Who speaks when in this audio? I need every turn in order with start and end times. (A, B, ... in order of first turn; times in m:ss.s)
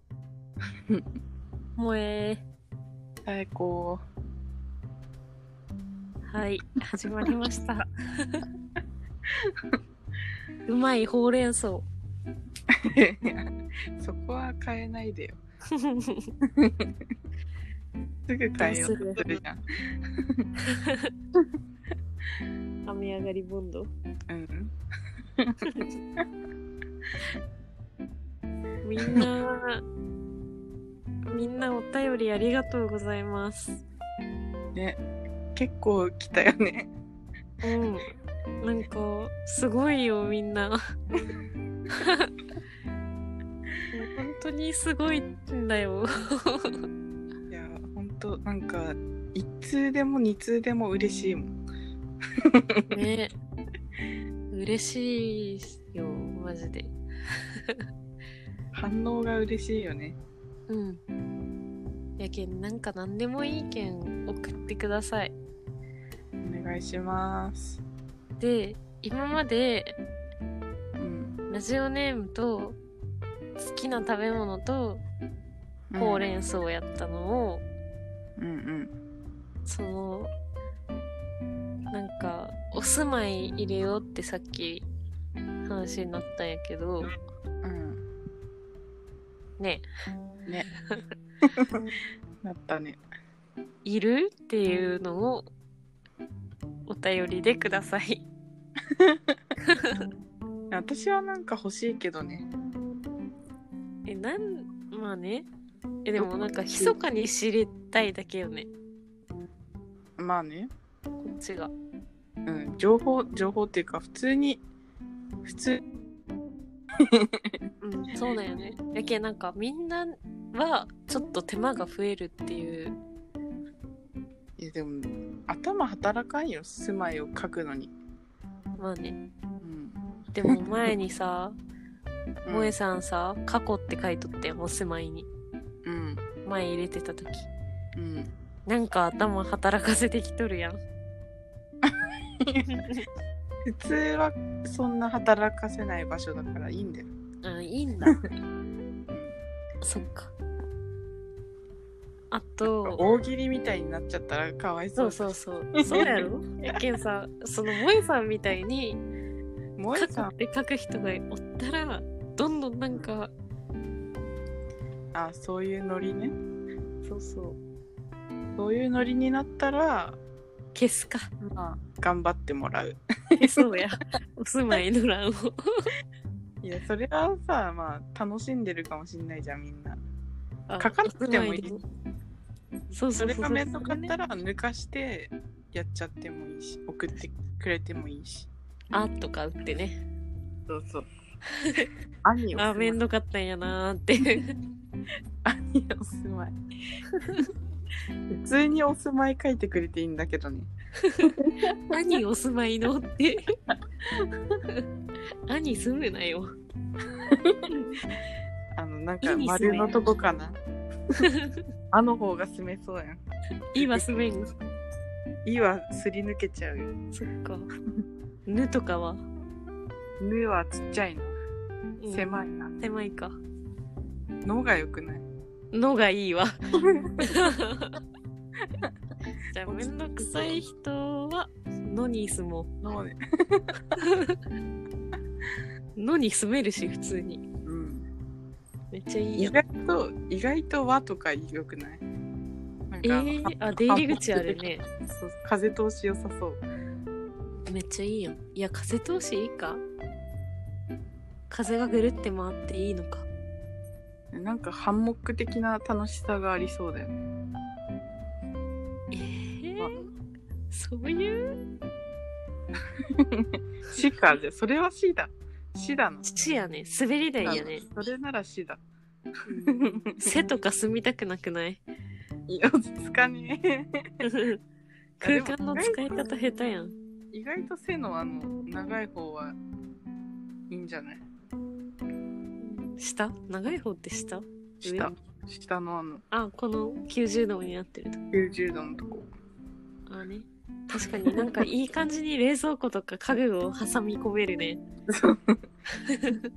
0:01.8-0:02.4 A
0:03.2-0:04.0 B
0:06.3-0:08.4 A
0:10.7-0:11.9 A
0:12.8-0:15.4 B
0:15.7-0:16.3 A
0:16.6-0:16.9 B
0:18.3-0:19.6 B
0:18.6-0:19.2 A
0:20.7-0:21.1 A
0:22.9-0:23.9 A
0:24.3-0:24.7 B
0:28.8-0:29.8 A
0:31.3-0:33.8 A
0:34.8-0:35.0 B
0:35.6-0:36.9 B
0:37.6-0:40.8 A
0:42.0-0:42.3 A
0:43.9-0:46.8 A
0:47.5-0:51.6 B
0:52.5-0:52.8 B
0:52.9-0:53.3 A
0:54.5-0:56.9 A
0:58.7-1:00.2 B
1:00.7-1:01.0 A
1:02.2-1:05.3 A
1:06.4-1:07.8 B
1:08.4-1:10.0 A
1:11.0-1:11.4 B
1:11.5-1:12.8 A
1:13.6-1:15.0 A
1:15.9-1:16.3 B
1:16.0-1:17.6 A
1:18.4-1:18.9 B
1:19.7-1:20.3 A
1:21.9-1:24.9 A
1:25.7-1:27.1 A
1:27.6-1:28.0 B
1:29.6-1:29.8 A
1:31.5-1:31.8 B
1:32.4-1:33.0 B
1:33.8-1:35.4 A
1:36.9-1:38.3 A
1:39.0-1:39.4 B
1:39.7-1:40.0 A
1:40.7-1:42.5 B
1:44.1-1:45.5 A
1:46.0-1:48.7 A
1:46.2-1:47.0 B
1:50.2-1:50.7 B
1:51.2-1:51.7 A
1:52.5-1:54.6 B
1:55.4-1:55.8 B
1:57.1-1:57.5 B
1:57.8-2:03.0 A
2:04.6-2:07.9 B
2:08.8-2:09.2 A
2:09.6-2:10.6 B
2:10.3-2:11.6 A
2:12.5-2:12.8 B
2:12.5-2:15.3 A
2:15.8-2:16.2 B
2:16.4-2:17.5 A
2:18.0-2:18.3 B
2:18.7-2:20.8 A
2:22.7-2:23.0 A
2:23.7-2:27.1 B
2:27.4-2:28.2 A
2:29.1-2:29.4 B
2:29.8-2:30.3 A
2:32.3-2:33.0 A
2:32.6-2:36.3 B
2:35.0-2:39.0 A
2:39.8-2:40.3 B
2:39.9-2:43.3 A
2:45.1-2:46.4 B
2:47.0-2:47.6 A
2:48.6-2:50.2 B
2:50.7-2:51.3 A
2:51.4-2:53.6 B
2:53.4-2:55.9 A
2:56.6-3:00.0 B
3:00.7-3:01.8 A
3:00.8-3:01.8 B
3:02.9-3:04.1 A
3:03.1-3:08.5 B
3:08.9-3:10.0 A
3:10.7-3:11.1 B
3:12.2-3:13.0 B
3:12.5-3:14.5 A
3:15.4-3:16.6 B
3:17.2-3:17.5 A
3:18.3-3:21.8 B
3:21.9-3:23.5 A
3:25.5-3:26.5 A
3:27.4-3:27.7 B
3:28.7-3:30.6 B
3:29.2-3:30.0 A
3:31.2-3:31.6 A
3:31.9-3:33.2 B
3:33.7-3:34.5 A
3:33.8-3:34.1 B
3:35.4-3:36.9 B
3:37.1-3:37.7 A
3:38.5-3:39.2 A
3:40.2-3:41.4 B
3:42.0-3:43.4 A
3:42.1-3:42.7 B
3:44.4-3:45.2 B
3:45.7-3:46.6 A
3:46.9-3:47.4 B
3:47.2-3:48.0 A
3:49.5-3:52.7 A
3:49.6-3:50.6 B
3:52.8-3:53.7 B
3:54.0-3:54.4 A
3:56.0-3:57.4 A
3:57.7-3:58.1 B
3:58.9-3:59.6 A
3:59.4-4:02.0 B
4:02.9-4:06.6 B
4:03.0-4:04.8 A
4:07.7-4:09.8 A
4:11.5-4:13.3 A
4:14.3-4:17.2 B
4:19.1-4:20.0 A
4:20.7-4:21.6 A
4:23.2-4:26.5 B
4:26.2-4:27.8 A
4:27.4-4:28.8 B
4:29.5-4:31.8 A
4:29.5-4:30.4 B
4:32.5-4:33.9 B
4:34.2-4:34.6 A
4:35.2-4:37.0 A
4:35.2-4:36.3 B
4:37.3-4:39.6 B
4:40.7-4:41.2 B
4:42.6-4:45.1 A
4:44.8-4:46.2 B
4:46.3-4:48.2 A
4:48.3-4:49.3 B
4:50.1-4:54.8 A
4:51.2-4:51.6 B
4:55.1-4:55.6 B
4:56.1-4:56.4 A